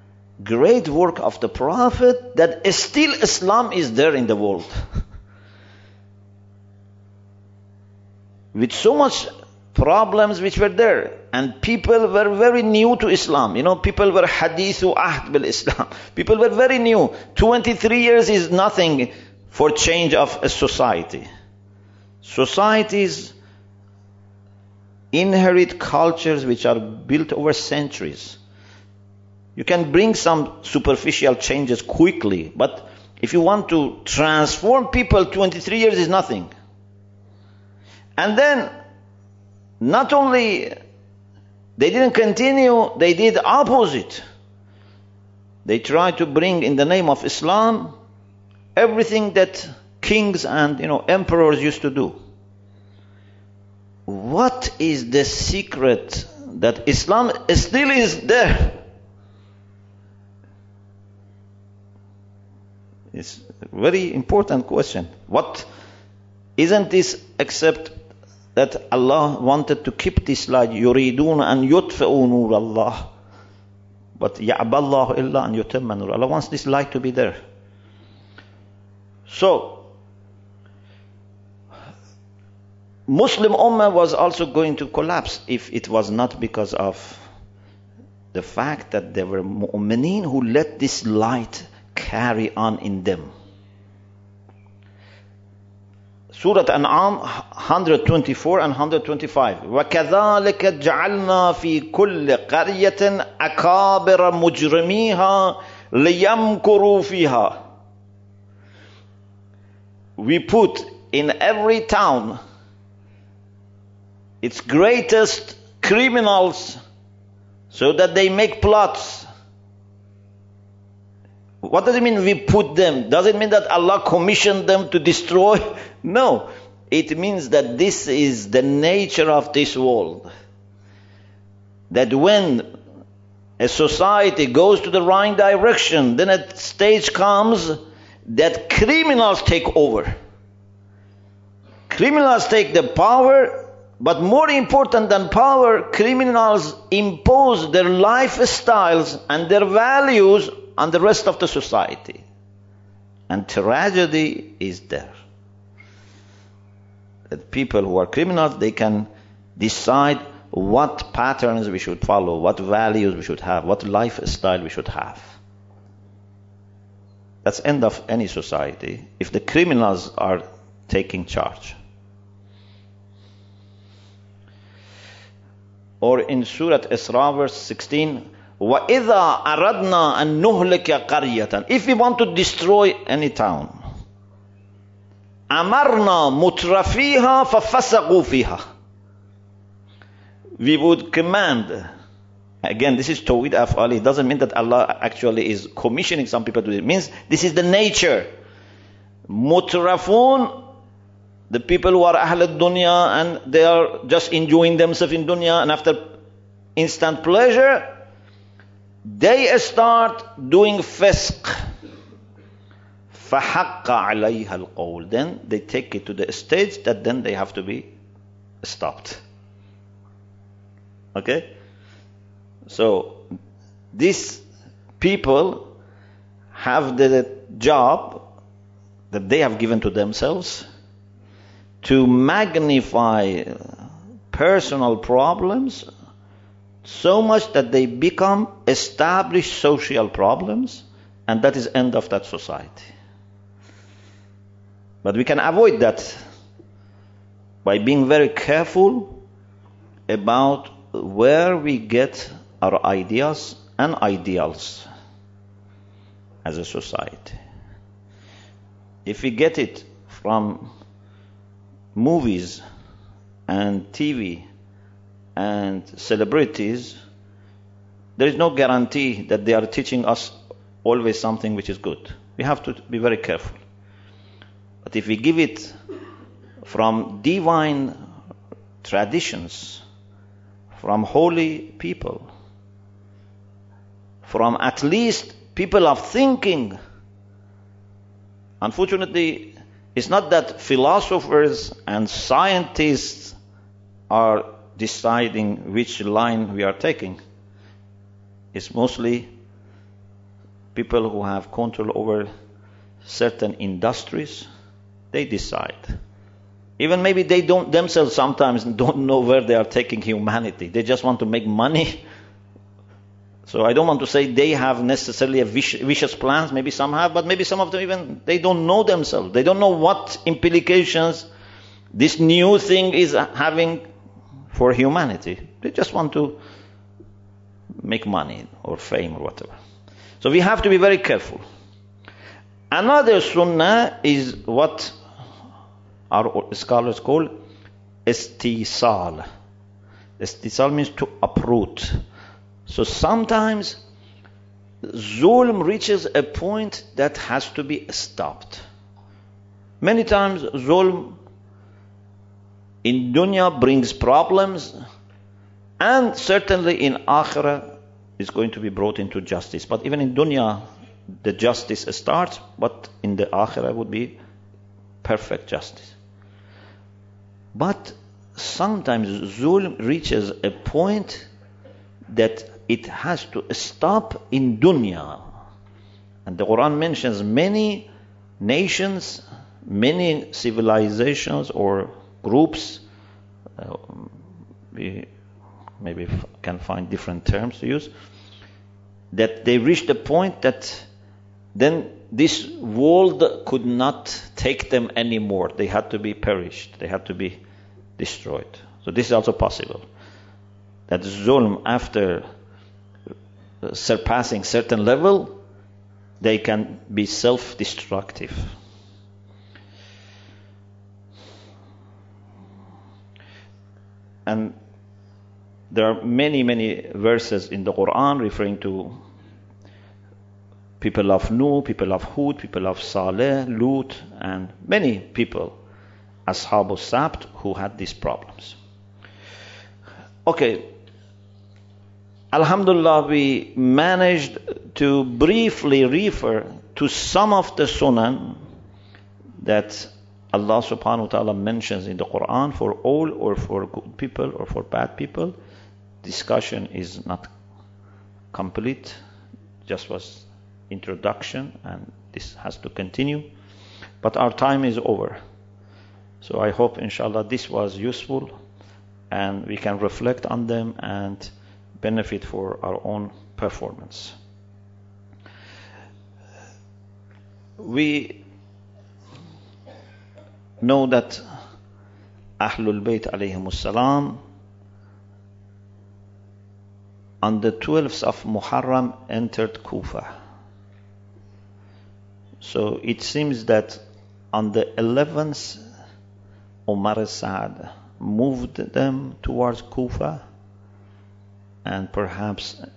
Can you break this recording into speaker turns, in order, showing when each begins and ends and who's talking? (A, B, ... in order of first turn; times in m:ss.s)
0:00.4-0:04.8 A
0:08.5-0:21.3 A
0:22.2-0:23.3 A
0:25.1-0:28.4 A
0:29.6-0:36.5 A
0:38.2-0:38.7 A
0:39.8-0:40.7 A
0:41.8-0:44.2 A
0:45.6-0:47.9 A
0:48.8-0:52.2 A
0:54.1-0:58.8 A
1:03.1-1:05.7 A
1:06.6-1:08.0 A
1:08.6-1:13.0 A
1:14.2-1:17.4 A
1:19.3-1:19.9 A
1:23.1-1:27.2 A
1:28.3-1:33.3 A
1:36.3-1:47.6 A
1:50.2-1:52.4 A
1:54.4-1:56.8 A
1:57.7-1:59.3 A
2:01.6-2:10.3 A
2:11.9-2:12.6 A
2:13.6-2:20.1 A
2:21.9-2:32.2 A
2:33.3-2:35.2 A
2:37.3-2:45.4 A
2:47.4-2:51.8 A
2:56.0-3:03.7 A
3:05.5-3:08.6 A
3:10.6-3:11.9 A
3:12.6-3:18.3 A
3:19.3-3:20.5 A
3:21.5-3:26.0 A
3:26.8-3:27.9 A
3:29.0-3:31.6 A
3:33.1-3:37.9 A
3:38.6-3:39.2 A
3:41.1-3:41.5 A
3:42.7-3:43.2 A
3:43.9-3:44.4 A
3:45.0-3:45.7 A
3:46.5-3:48.2 A
3:49.1-3:50.7 A
3:51.8-3:53.6 A
3:54.3-3:55.8 A
3:56.8-4:02.9 A
4:05.0-4:06.2 A
4:07.6-4:09.2 A
4:10.1-4:14.9 A
4:16.4-4:17.4 A
4:19.0-4:20.7 A
4:21.9-4:22.6 A
4:23.5-4:24.4 A
4:25.4-4:27.0 A
4:28.2-4:33.6 A
4:34.8-4:35.8 A
4:36.6-4:37.9 A
4:38.8-4:39.8 A
4:40.7-4:42.2 A
4:44.2-4:46.8 A
4:48.6-4:53.4 A
4:54.1-4:57.2 A
4:58.5-4:59.3 A
5:00.7-5:02.3 A
5:03.0-5:04.5 A
5:05.1-5:05.9 A
5:06.8-5:12.0 A
5:13.4-5:21.3 A
5:21.9-5:23.8 A
5:24.5-5:26.4 A
5:27.8-5:29.5 A
5:30.2-5:31.4 A
5:32.7-5:34.9 A
5:36.1-5:37.3 A
5:38.0-5:39.2 A
5:40.2-5:42.0 A
5:42.6-5:43.8 A
5:44.8-5:48.6 A
5:49.8-5:51.2 A
5:52.8-5:54.7 A
5:55.8-5:57.6 A
5:58.2-6:00.6 A
6:01.2-6:04.1 A
6:05.0-6:06.0 A
6:07.5-6:11.3 A
6:12.1-6:15.2 A
6:16.2-6:17.9 A
6:18.4-6:22.8 A
6:23.6-6:24.1 A
6:24.7-6:25.1 A
6:25.8-6:27.9 A
6:29.1-6:30.9 A
6:31.5-6:37.4 A
6:38.0-6:39.8 A
6:40.9-6:42.2 A
6:43.6-6:45.3 A
6:46.2-6:48.5 A
6:54.2-6:54.5 A
6:55.7-6:59.0 A
7:00.8-7:05.6 A
7:06.3-7:08.6 A
7:10.2-7:10.7 A
7:12.3-7:18.4 A
7:19.4-7:25.3 A
7:26.0-7:27.3 A
7:28.3-7:29.0 A
7:29.6-7:33.3 A
7:34.0-7:35.2 A
7:36.2-7:38.3 A
7:39.1-7:44.2 A
7:47.6-7:48.2 A
7:50.6-7:51.2 A
7:52.4-7:54.2 A
7:57.2-8:00.1 A
8:02.4-8:03.8 A
8:04.3-8:05.6 A
8:06.7-8:10.2 A
8:11.6-8:12.6 A